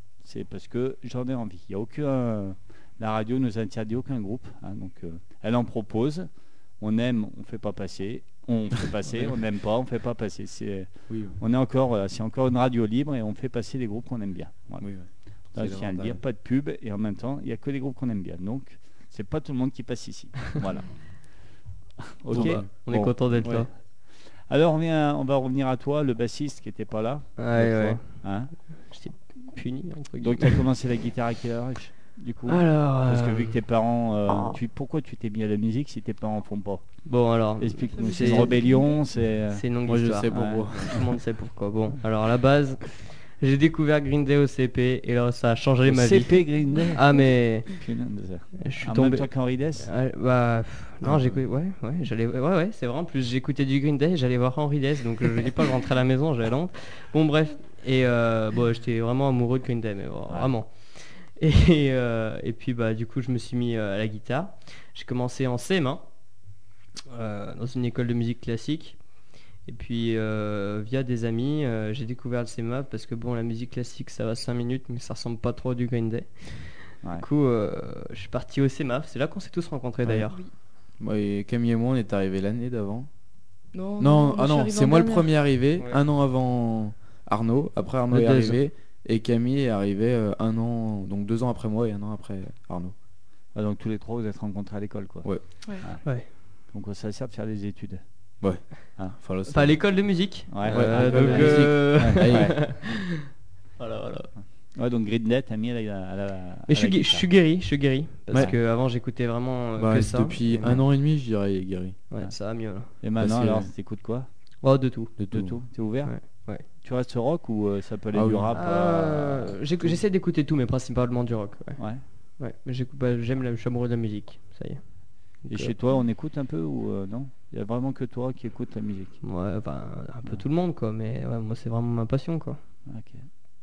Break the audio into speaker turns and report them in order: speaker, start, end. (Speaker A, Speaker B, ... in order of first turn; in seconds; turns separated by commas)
Speaker A: 0.2-6.3, Speaker A: 6.8-14.9, Speaker B: 11.1-11.4, Speaker B: 14.8-16.2, Speaker A: 15.5-21.4, Speaker A: 22.1-23.5, Speaker B: 22.3-22.7, Speaker C: 22.3-23.7, Speaker B: 23.4-23.7, Speaker A: 24.2-28.6, Speaker C: 27.4-30.6, Speaker A: 30.2-37.0, Speaker C: 32.5-33.5, Speaker C: 37.0-38.7, Speaker A: 37.6-39.6, Speaker D: 37.9-39.0, Speaker C: 39.5-47.7, Speaker B: 39.9-41.0, Speaker A: 40.3-40.9, Speaker A: 45.9-49.9, Speaker C: 48.6-66.1, Speaker B: 51.0-51.4, Speaker C: 67.1-69.0, Speaker C: 69.6-80.4, Speaker B: 81.0-83.1, Speaker D: 83.7-85.3, Speaker B: 84.0-92.9, Speaker C: 88.1-88.6, Speaker A: 93.5-98.0, Speaker B: 98.4-100.1, Speaker C: 99.5-103.2, Speaker A: 100.5-102.6, Speaker B: 100.7-102.7, Speaker C: 103.8-104.3, Speaker A: 104.7-107.3, Speaker C: 106.7-110.8, Speaker A: 108.3-108.6, Speaker B: 109.8-112.0, Speaker C: 112.1-112.9, Speaker A: 112.2-114.3, Speaker B: 113.2-113.7, Speaker C: 114.6-115.2, Speaker B: 115.2-115.6, Speaker A: 115.2-119.9, Speaker C: 116.0-116.6, Speaker B: 118.1-118.5, Speaker C: 118.5-125.7, Speaker A: 121.8-122.0, Speaker A: 125.5-129.2, Speaker C: 129.2-132.6, Speaker A: 132.9-133.2